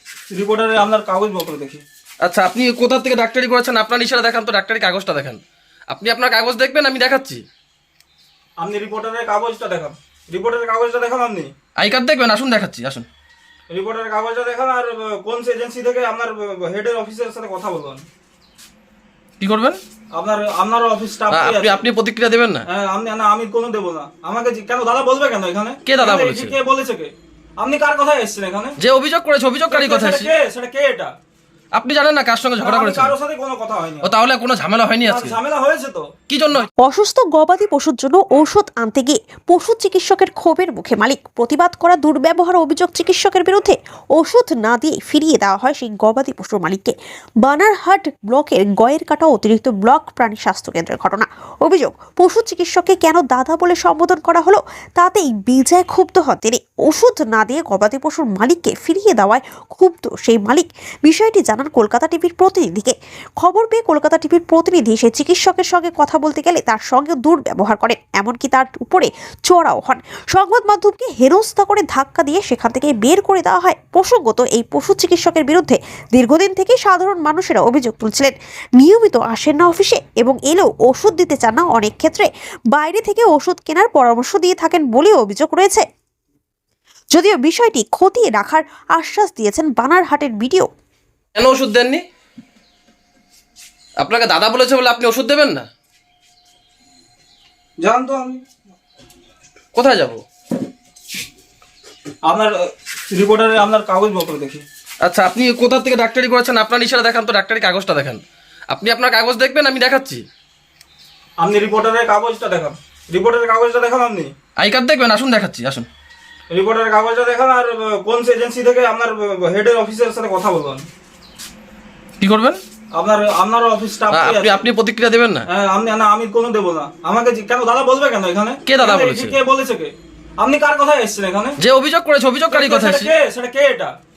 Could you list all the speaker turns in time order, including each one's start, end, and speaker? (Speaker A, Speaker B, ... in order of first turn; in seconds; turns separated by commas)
Speaker A: 0.3-1.8, Speaker B: 2.2-7.4, Speaker A: 8.6-11.5, Speaker B: 11.8-13.1, Speaker A: 13.7-18.0, Speaker B: 19.4-19.8, Speaker A: 20.1-21.8, Speaker B: 21.3-22.6, Speaker A: 22.7-28.8, Speaker B: 25.9-26.6, Speaker B: 28.8-30.3, Speaker A: 29.7-31.1, Speaker B: 31.8-33.1, Speaker A: 32.6-34.1, Speaker B: 34.0-35.4, Speaker A: 35.0-36.1, Speaker B: 36.3-36.7, Speaker C: 36.8-85.8, Speaker C: 87.1-90.7, Speaker B: 91.3-92.0, Speaker B: 94.0-95.7, Speaker A: 97.8-98.4, Speaker B: 99.7-100.2, Speaker A: 102.3-102.5, Speaker A: 103.1-104.6, Speaker B: 105.0-110.2, Speaker A: 111.4-114.3, Speaker B: 114.6-115.9, Speaker A: 116.5-120.8, Speaker B: 122.2-122.6, Speaker A: 122.9-124.6, Speaker B: 124.1-125.5, Speaker A: 125.5-131.6, Speaker B: 128.7-129.4, Speaker B: 131.6-133.1, Speaker A: 132.5-133.9